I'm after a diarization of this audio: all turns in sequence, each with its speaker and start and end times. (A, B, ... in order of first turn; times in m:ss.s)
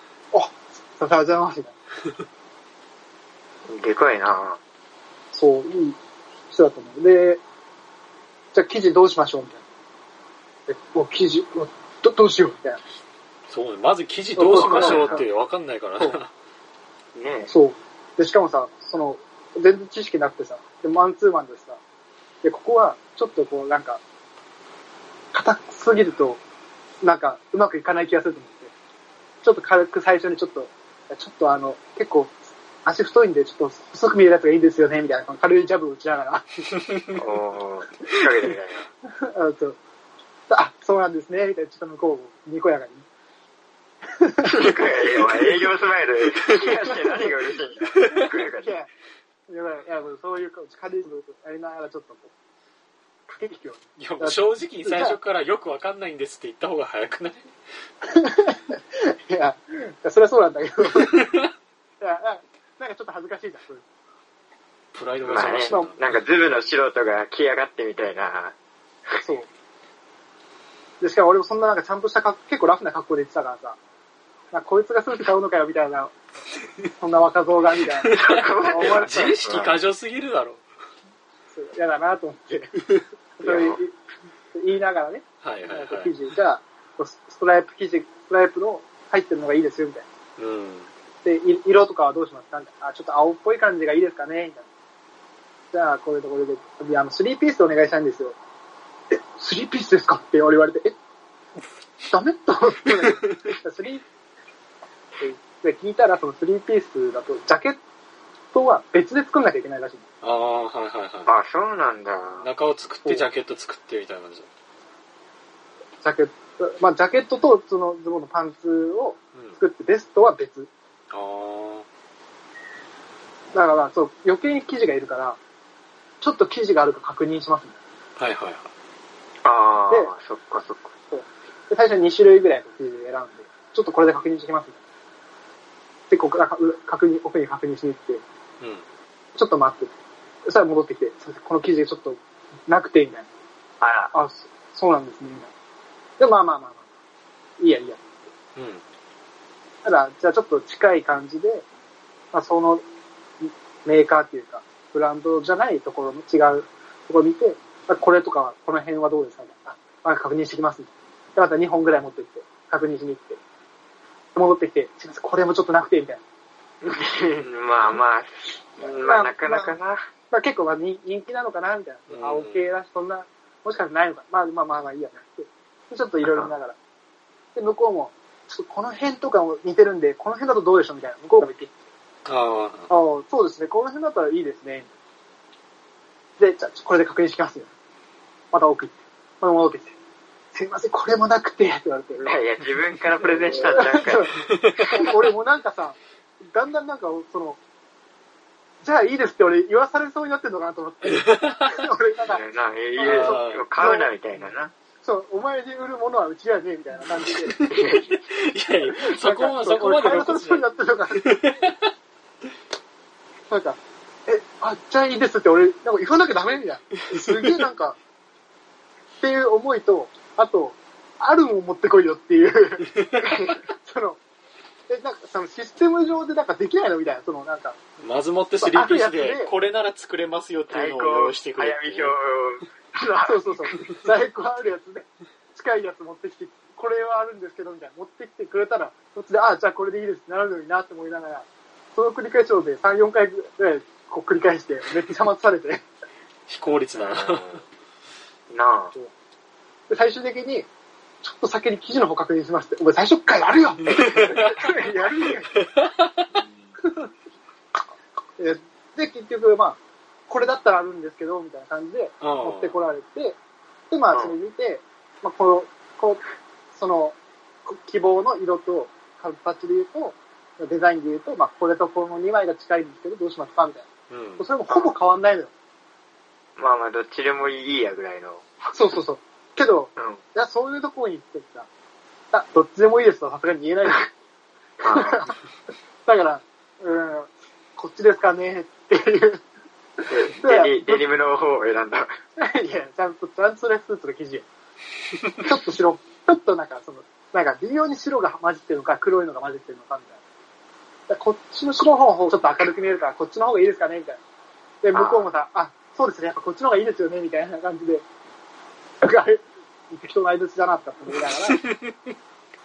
0:00.3-0:01.8 A
0:03.7-0:04.6 B
0:05.3-0:07.4 A
0:08.5-0:09.6 A
0:10.7-0:12.8 A
0:13.5-0:16.3 C
0:14.4-0:15.3 A
0:14.5-0:15.2 B
0:17.2-0:17.5 B
0:17.5-0:21.8 A
0:22.4-0:24.0 A
0:25.3-0:26.4 A
0:27.0-0:28.7 A
0:29.4-0:36.5 A
0:37.2-0:38.9 B
0:39.2-0:39.8 A
0:40.5-0:43.1 A
0:44.2-0:44.8 A
0:44.4-0:48.8 B
0:49.5-0:52.3 A
0:53.3-0:55.2 A
0:54.0-0:57.5 C
0:58.1-1:01.2 A
1:02.0-1:03.8 A
1:04.9-1:06.0 C
1:05.3-1:08.6 B
1:09.2-1:09.5 A
1:11.0-1:13.8 A
1:14.5-1:16.1 A
1:17.0-1:18.1 A
1:18.1-1:20.6 C
1:18.1-1:19.8 B
1:18.7-1:19.4 A
1:21.5-1:22.8 A
1:23.4-1:23.9 A
1:23.4-1:23.8 B
1:24.5-1:30.1 A
1:25.4-1:26.1 C
1:30.4-1:30.9 C
1:31.2-1:34.7 A
1:35.7-1:38.4 A
1:39.1-1:41.0 A
1:42.1-1:44.0 A
1:45.2-1:47.8 A
1:48.5-1:50.0 A
1:50.2-1:51.3 C
1:51.3-1:52.5 B
1:52.4-1:54.5 C
1:56.0-2:00.7 A
2:01.1-2:01.9 C
2:03.5-2:05.4 A
2:06.2-2:07.8 A
2:08.2-2:08.7 C
2:09.4-2:10.9 B
2:11.1-2:14.8 A
2:16.1-2:18.2 A
2:19.4-2:19.9 A
2:20.5-2:23.3 A
2:23.8-2:24.1 B
2:24.1-2:25.5 A
2:26.2-2:26.8 A
2:27.6-2:28.3 A
2:28.6-2:28.8 C
2:29.8-2:31.7 A
2:32.3-2:32.8 A
2:33.4-2:43.4 A
2:44.4-2:46.2 A
2:46.8-2:50.0 B
2:49.0-2:49.8 A
2:50.3-2:56.8 A
2:52.1-2:52.6 C
2:56.2-2:56.5 B
2:57.6-3:01.7 A
3:02.3-3:02.9 C
3:02.9-3:04.9 A
3:06.4-3:07.7 A
3:08.5-3:10.0 A
3:10.5-3:12.4 A
3:12.2-3:14.9 B
3:13.2-3:16.0 A
3:16.5-3:17.6 A
3:18.8-3:22.4 A
3:21.1-3:21.7 C
3:22.3-3:24.7 B
3:23.0-3:24.5 A
3:23.0-3:23.6 C
3:25.0-3:27.6 A
3:27.4-3:31.9 C
3:27.7-3:28.1 B
3:29.0-3:31.3 A
3:33.5-3:38.0 A
3:39.2-3:44.2 A
3:43.2-3:43.6 B
3:44.9-3:47.8 A
3:48.0-3:52.1 C
3:48.6-3:49.5 A
3:50.7-3:53.5 B
3:53.2-4:05.8 A
4:06.5-4:07.6 C
4:07.0-4:07.5 B
4:08.5-4:08.9 B
4:09.9-4:10.7 A
4:11.2-4:15.5 A
4:13.8-4:14.7 C
4:15.7-4:16.3 C
4:16.8-4:17.1 A
4:18.4-4:23.4 A
4:22.2-4:22.8 C
4:23.9-4:26.2 A
4:26.7-4:33.9 A
4:34.1-4:34.4 C
4:34.4-4:35.5 A
4:34.7-4:34.9 B
4:36.6-4:38.5 B
4:38.7-4:41.7 A
4:42.3-4:44.1 A
4:44.8-4:45.3 B
4:44.9-4:45.3 A
4:46.1-4:49.4 A
4:50.1-4:52.1 B
4:50.4-4:51.0 A
4:52.4-4:54.4 A
4:55.4-5:00.2 A
5:01.1-5:04.2 A
5:04.8-5:08.0 A
5:04.9-5:05.3 B
5:09.0-5:11.6 A
5:11.4-5:11.9 C